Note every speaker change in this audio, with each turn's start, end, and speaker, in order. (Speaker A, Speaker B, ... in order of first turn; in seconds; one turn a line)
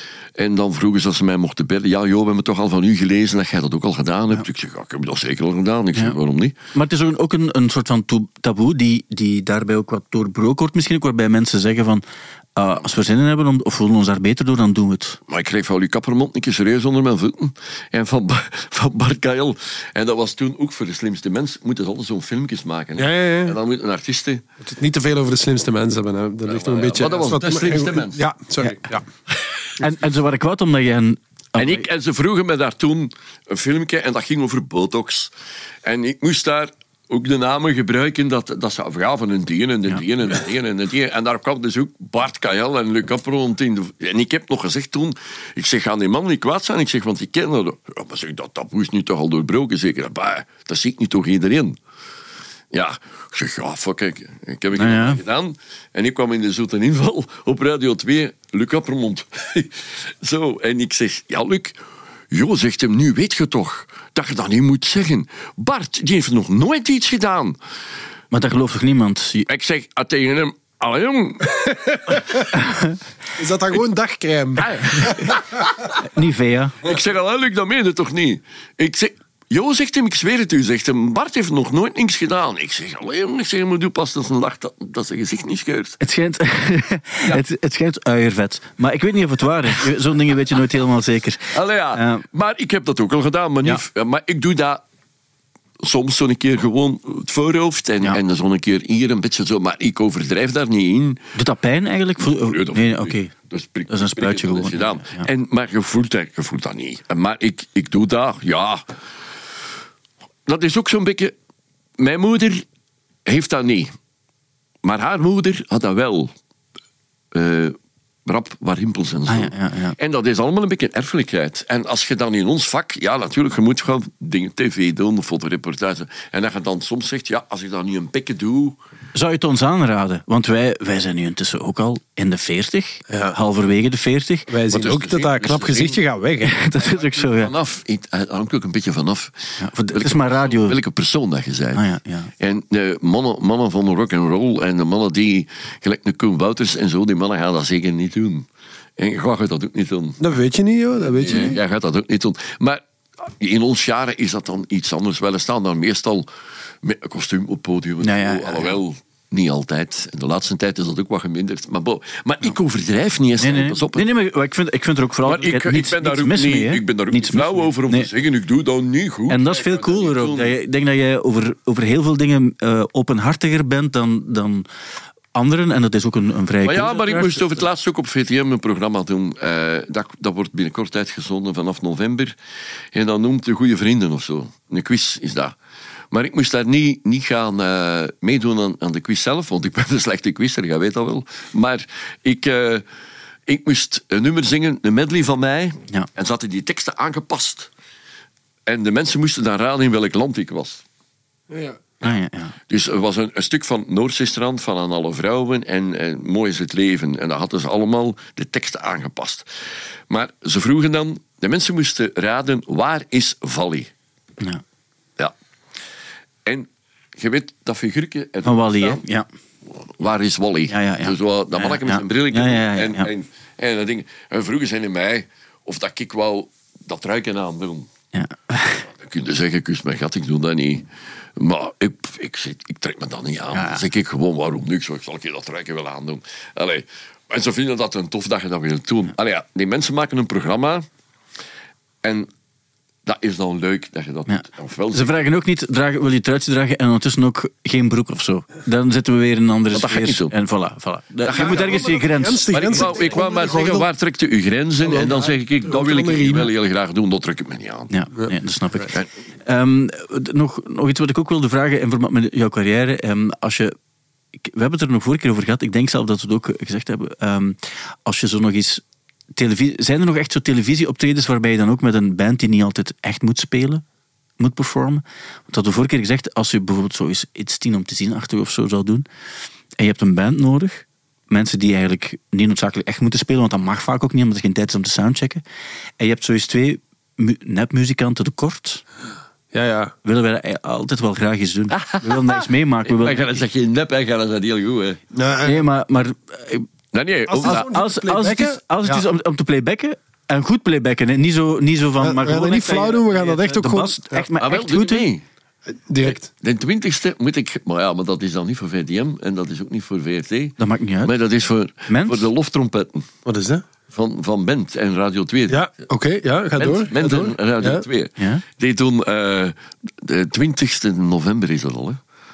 Speaker A: 0.4-6.5
Speaker B: 6.7-12.0
Speaker B: 12.6-15.2
Speaker A: 15.3-24.4
Speaker C: 23.0-23.6
Speaker C: 24.6-29.1
Speaker A: 26.5-28.2
Speaker B: 29.8-31.9
Speaker A: 31.6-35.3
Speaker A: 35.8-51.8
Speaker A: 52.7-61.8
Speaker B: 54.7-55.2
Speaker A: 62.3-67.6
Speaker B: 68.3-69.5
Speaker A: 69.5-72.2
Speaker C: 71.9-72.4
Speaker B: 72.5-72.9
Speaker C: 73.4-75.3
Speaker A: 74.6-75.9
Speaker B: 76.0-76.8
Speaker A: 76.8-86.0
Speaker B: 86.0-92.2
Speaker A: 91.5-94.8
Speaker A: 95.8-101.2
Speaker B: 101.3-103.3
Speaker A: 102.3-108.8
Speaker B: 103.9-105.3
Speaker A: 110.5-111.3
Speaker A: 112.0-112.6
Speaker A: 113.2-113.9
Speaker A: 114.8-116.3
Speaker A: 117.3-128.8
Speaker B: 119.3-120.0
Speaker B: 129.1-134.5
Speaker C: 133.1-133.4
Speaker C: 134.5-136.6
Speaker A: 134.7-136.0
Speaker B: 136.4-137.5
Speaker A: 136.8-141.8
Speaker B: 139.6-140.8
Speaker B: 141.7-142.3
Speaker A: 142.4-148.5
Speaker A: 149.0-150.2
Speaker C: 150.2-151.6
Speaker A: 151.1-156.3
Speaker A: 156.8-164.0
Speaker B: 158.0-158.8
Speaker B: 163.4-168.1
Speaker A: 165.2-170.5
Speaker B: 169.3-174.7
Speaker B: 175.3-177.6
Speaker A: 176.6-182.3
Speaker A: 182.9-185.5
Speaker A: 186.1-192.8
Speaker A: 193.5-197.7
Speaker A: 198.7-200.8
Speaker C: 201.5-201.8
Speaker B: 202.0-202.5
Speaker A: 202.7-209.5
Speaker A: 210.1-213.9
Speaker A: 216.4-219.0
Speaker B: 218.4-219.2
Speaker A: 220.0-227.9
Speaker B: 220.7-223.1
Speaker B: 228.1-228.8
Speaker A: 229.0-240.8
Speaker B: 233.5-233.8
Speaker A: 242.0-242.3
Speaker A: 243.1-245.2
Speaker B: 244.3-253.0
Speaker A: 249.7-250.3
Speaker A: 251.2-251.9
Speaker C: 251.3-253.9
Speaker A: 252.5-257.9
Speaker C: 254.8-256.5
Speaker B: 257.9-263.7
Speaker B: 264.4-268.8
Speaker B: 269.3-273.8
Speaker B: 274.4-279.1
Speaker B: 279.8-285.4
Speaker B: 286.0-288.8
Speaker C: 289.5-289.9
Speaker B: 290.0-293.3
Speaker A: 291.7-295.0
Speaker C: 295.1-295.6
Speaker B: 295.4-296.7
Speaker A: 296.9-297.6
Speaker C: 297.3-299.0
Speaker B: 297.4-305.1
Speaker C: 302.0-304.3
Speaker A: 304.4-305.2
Speaker C: 305.7-306.3
Speaker A: 306.0-313.1
Speaker B: 310.6-311.1
Speaker B: 311.9-312.3
Speaker C: 313.2-313.6
Speaker A: 313.9-315.6
Speaker C: 315.5-317.9
Speaker A: 316.6-322.0
Speaker B: 318.2-318.4